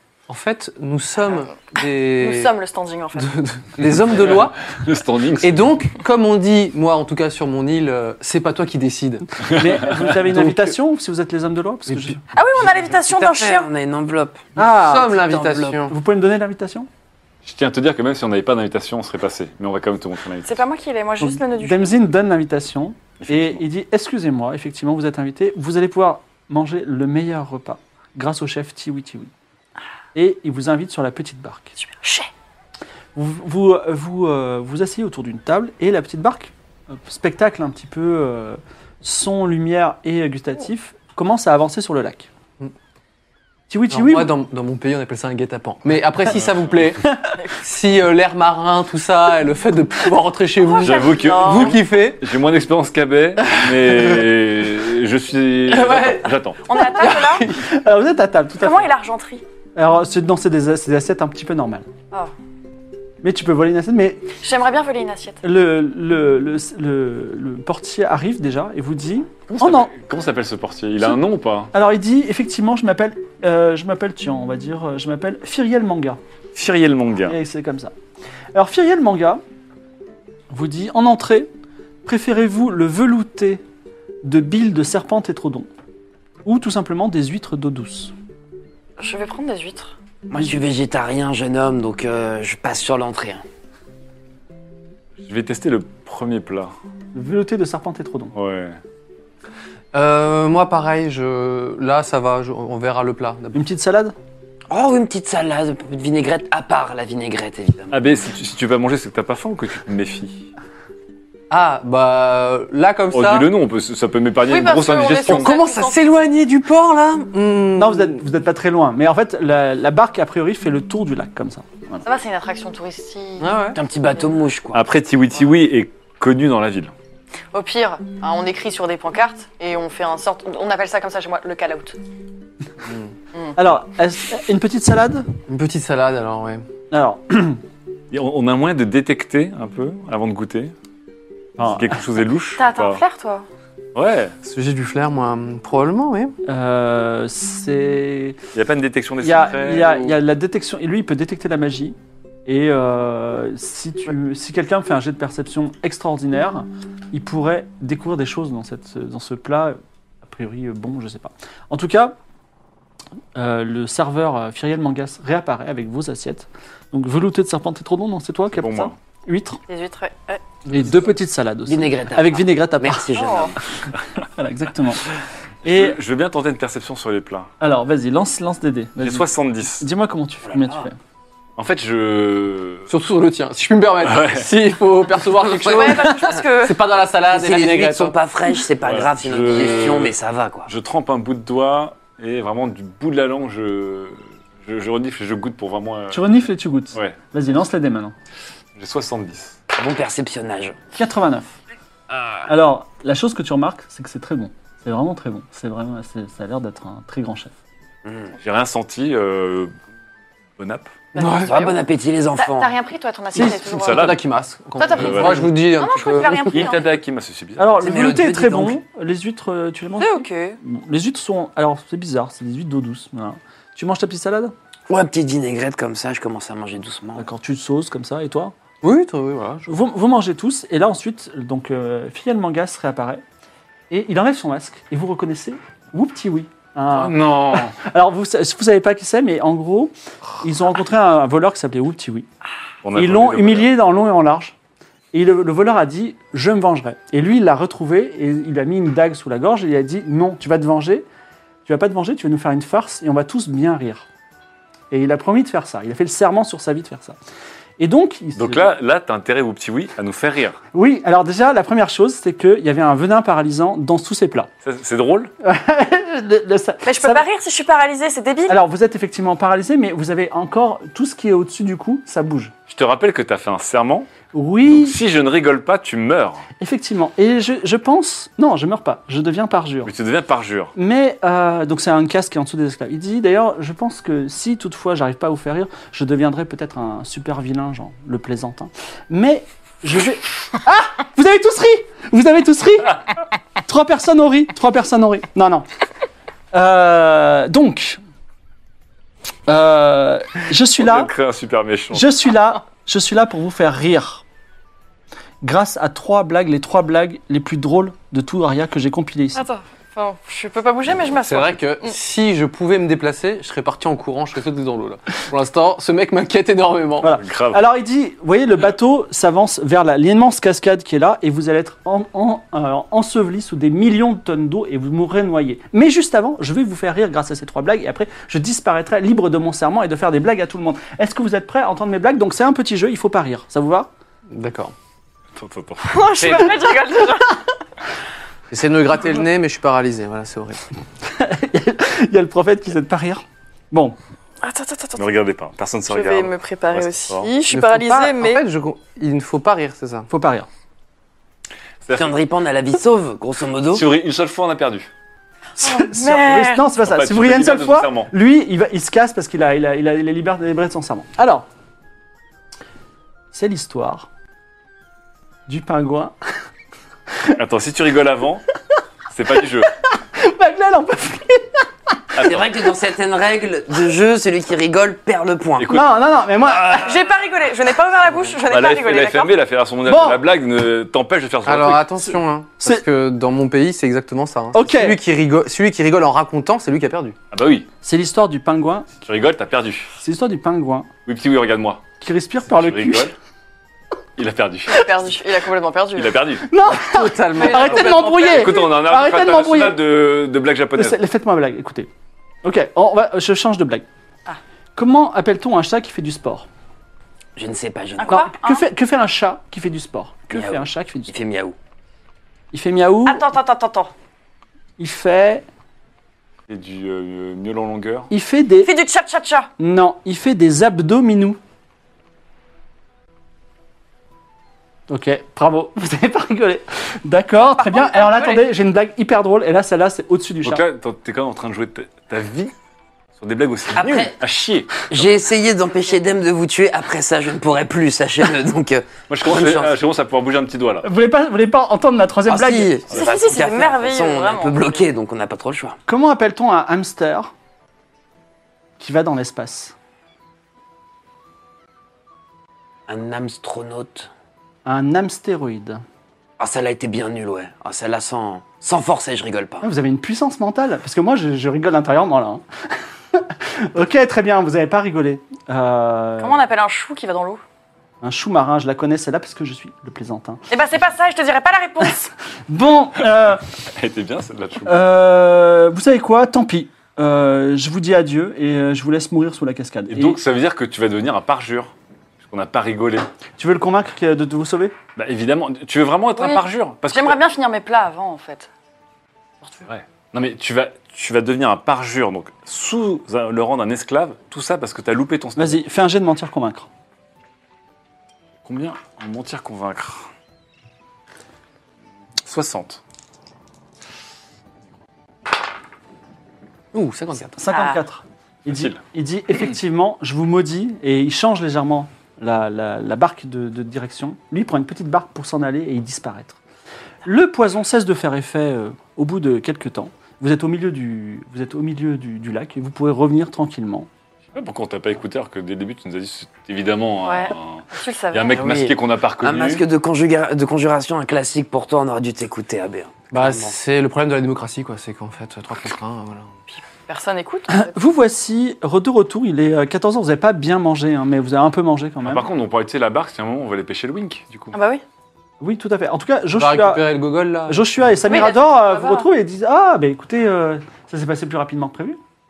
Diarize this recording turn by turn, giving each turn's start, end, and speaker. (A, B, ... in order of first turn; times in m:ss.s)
0:00.3-0:02.5 A
0:02.2-0:03.4 B
0:03.2-0:04.6 A
0:04.1-0:05.8 C
0:05.4-0:09.3 A
0:09.4-0:10.0 C
0:09.5-0:12.2 D
0:10.3-0:10.7 A
0:12.3-0:13.7 B
0:13.0-0:14.5 E
0:14.6-0:16.9 D
0:14.6-0:16.0 A
0:17.4-0:20.6 C
0:20.5-0:22.0 B
0:21.2-0:29.3 D
0:23.2-0:23.6 C
0:30.2-0:31.8 D
0:31.8-0:32.3 B
0:33.2-0:42.3 D
0:43.7-0:44.3 D
0:43.9-0:52.2 A
0:46.3-0:46.8 C
0:50.6-0:51.8 B
0:50.8-0:56.7 C
0:55.7-0:57.7 A
0:56.6-0:57.5 B
0:57.5-0:58.9 D
0:58.6-0:59.4 B
0:59.8-1:01.9 D
1:03.2-1:04.3 D
1:04.4-1:05.4 B
1:05.4-1:09.9 D
1:09.5-1:11.7 C
1:11.7-1:16.2 D
1:16.6-1:17.4 C
1:17.3-1:17.9 D
1:18.6-1:19.4 D
1:20.5-1:21.5 D
1:22.0-1:23.6 D
1:24.2-1:25.7 D
1:26.4-1:28.1 D
1:29.0-1:30.0 B
1:30.3-1:33.4 E
1:35.2-1:36.7 C
1:37.1-1:38.3 D
1:38.3-1:38.8 C
1:39.9-1:43.6 A
1:43.5-1:44.2 D
1:44.7-1:48.0 E
1:47.9-1:50.5 C
1:51.5-1:53.5 A
1:53.1-1:55.5 C
1:54.5-1:56.3 B
1:55.2-1:58.2 A
1:57.8-2:02.0 D
2:02.0-2:03.6 B
2:03.4-2:03.8 A
2:03.8-2:04.8 E
2:04.7-2:06.9 C
2:07.5-2:12.0 B
2:12.8-2:13.1 A
2:13.6-2:15.3 D
2:15.5-2:16.7 A
2:16.9-2:17.6 D
2:18.1-2:20.7 C
2:21.6-2:22.0 D
2:21.6-2:23.0 C
2:22.6-2:23.5 B
2:24.0-2:24.4 C
2:24.4-2:26.4 A
2:26.5-2:28.4 D
2:28.5-2:30.2 C
2:29.2-2:42.2 D
2:43.4-2:49.6 D
2:48.5-2:49.0 C
2:49.7-2:50.4 B
2:50.7-2:53.1 D
2:51.7-2:53.6 E
2:53.2-2:53.6 B
2:53.8-2:55.1 D
2:55.6-2:57.5 C
2:55.6-2:56.0 D
2:57.6-3:01.0 D
2:59.0-2:59.9 C
3:00.5-3:00.9 E
3:01.6-3:02.9 C
3:02.9-3:08.2 A
3:04.0-3:04.5 C
3:05.6-3:06.3 E
3:05.6-3:06.8 B
3:07.3-3:10.7 E
3:08.8-3:16.3 C
3:16.1-3:18.1 D
3:18.8-3:19.6 C
3:19.8-3:20.8 E
3:20.9-3:21.6 D
3:22.5-3:27.5 D
3:28.0-3:28.3 E
3:28.4-3:29.7 C
3:30.6-3:31.0 C
3:31.2-3:31.8 B
3:31.2-3:31.6 A
3:31.4-3:32.7 E
3:32.4-3:34.2 B
3:33.4-3:33.6 D
3:33.4-3:36.6 A
3:33.4-3:34.2 C
3:34.8-3:36.9 B
3:34.9-3:35.6 C
3:36.5-3:38.1 C
3:37.6-3:44.5 D
3:37.8-3:38.8 E
3:40.0-3:40.6 B
3:44.9-3:47.3 E
3:47.2-3:48.5 D
3:48.8-3:49.7 A
3:49.7-3:53.2 D
3:53.9-4:02.3 D
3:56.9-3:57.8 C
4:02.8-4:03.7 C
4:02.9-4:04.6 D
4:05.1-4:11.1 D
4:11.7-4:14.1 D
4:14.9-4:17.2 D
4:17.8-4:18.8 D
4:18.4-4:20.6 C
4:20.7-4:24.5 D
4:24.6-4:25.3 C
4:25.4-4:27.2 D
4:26.8-4:28.6 B
4:28.5-4:32.5 D
4:32.7-4:34.1 C
4:34.3-4:35.0 D
4:34.7-4:36.4 C
4:36.6-4:39.9 D
4:39.8-4:40.7 C
4:40.8-4:53.0 D
4:53.7-4:55.6 D
4:56.5-4:58.0 D
4:59.5-5:01.1 D
5:00.8-5:02.1 C
5:01.9-5:04.2 D
5:05.4-5:09.4 D
5:09.4-5:11.9 B
5:11.2-5:17.1 A
5:17.0-5:33.9 D
5:17.1-5:17.6 C
5:34.3-5:34.7 A
5:35.4-5:36.2 C
5:35.8-5:37.4 B
5:36.2-5:36.5 A
5:36.2-5:36.7 D
5:38.5-5:40.6 A
5:41.0-5:44.0 D
5:44.4-5:45.1 B
5:45.0-5:47.3 C
5:45.9-5:48.4 B
5:47.5-5:50.1 A
5:50.1-5:50.5 D
5:51.8-5:52.2 C
5:52.0-5:53.9 E
5:53.7-5:54.9 C
5:55.6-6:01.5 D
5:55.6-5:56.6 B
5:56.8-5:58.1 C
6:03.3-6:04.1 D
6:05.5-6:06.1 D
6:07.3-6:08.4 C
6:09.1-6:09.7 C
6:09.8-6:11.7 D
6:12.2-6:12.5 C
6:12.2-6:15.8 E
6:15.6-6:15.9 C
6:15.7-6:16.9 D
6:16.8-6:19.4 B
6:18.5-6:22.0 C
6:19.9-6:20.2 D
6:21.4-6:27.2 A
6:24.5-6:25.0 D
6:27.3-6:27.7 C
6:27.8-6:28.9 D
6:29.0-6:29.9 C
6:30.0-6:30.9 D
6:31.1-6:31.8 C
6:32.0-6:33.1 D
6:32.5-6:33.1 C
6:34.2-6:35.0 C
6:34.7-6:36.2 B
6:36.0-6:36.5 C
6:36.5-6:39.8 D
6:36.7-6:38.1 A
6:37.4-6:38.6 B
6:38.2-6:41.0 C
6:40.8-6:41.9 D
6:42.4-6:43.8 D
6:44.8-6:46.5 D
6:47.4-6:48.2 E
6:48.0-6:48.6 B
6:48.1-6:51.1 D
6:50.3-6:51.6 E
6:52.5-6:53.3 D
6:53.1-6:53.9 B
6:54.8-6:55.5 D
6:56.5-6:58.1 C
6:58.1-6:58.7 D
6:58.6-6:59.5 B
6:59.6-7:01.4 D
7:04.9-7:10.6 D
7:07.5-7:08.5 B
7:10.4-7:12.5 C
7:13.2-7:15.1 C
7:13.7-7:14.2 E
7:14.9-7:19.8 E
7:19.1-7:20.9 C
7:20.8-7:22.8 D
7:22.3-7:25.8 E
7:22.9-7:24.8 B
7:25.9-7:27.3 D
7:28.8-7:29.8 D
7:32.9-7:34.1 E
7:34.6-7:35.8 D
7:36.4-7:39.7 E
7:39.6-7:42.4 D
7:43.1-7:46.4 D
7:46.2-7:47.4 B
7:48.0-7:50.4 D
7:50.5-7:52.1 B
7:52.5-7:53.4 D
7:53.8-7:54.8 C
7:54.6-8:00.2 D
7:59.9-8:03.1 C
8:03.4-8:04.7 D
8:05.0-8:07.2 C
8:06.2-8:08.5 B
8:09.6-8:15.6 C
8:15.4-8:16.7 D
8:18.4-8:20.1 C
8:22.2-8:22.8 C
8:26.7-8:27.4 A
8:27.4-8:36.4 D
8:27.5-8:27.8 B
8:28.5-8:28.8 C
8:37.0-8:43.9 D
8:44.3-8:49.6 C
8:47.0-8:48.4 B
8:48.3-8:53.6 E
8:53.1-8:56.4 A
8:56.5-8:57.7 B
8:57.5-9:02.3 D
9:02.0-9:04.6 C
9:04.5-9:04.8 B
9:05.4-9:06.9 D
9:06.3-9:07.7 A
9:07.5-9:12.0 D
9:08.1-9:09.1 B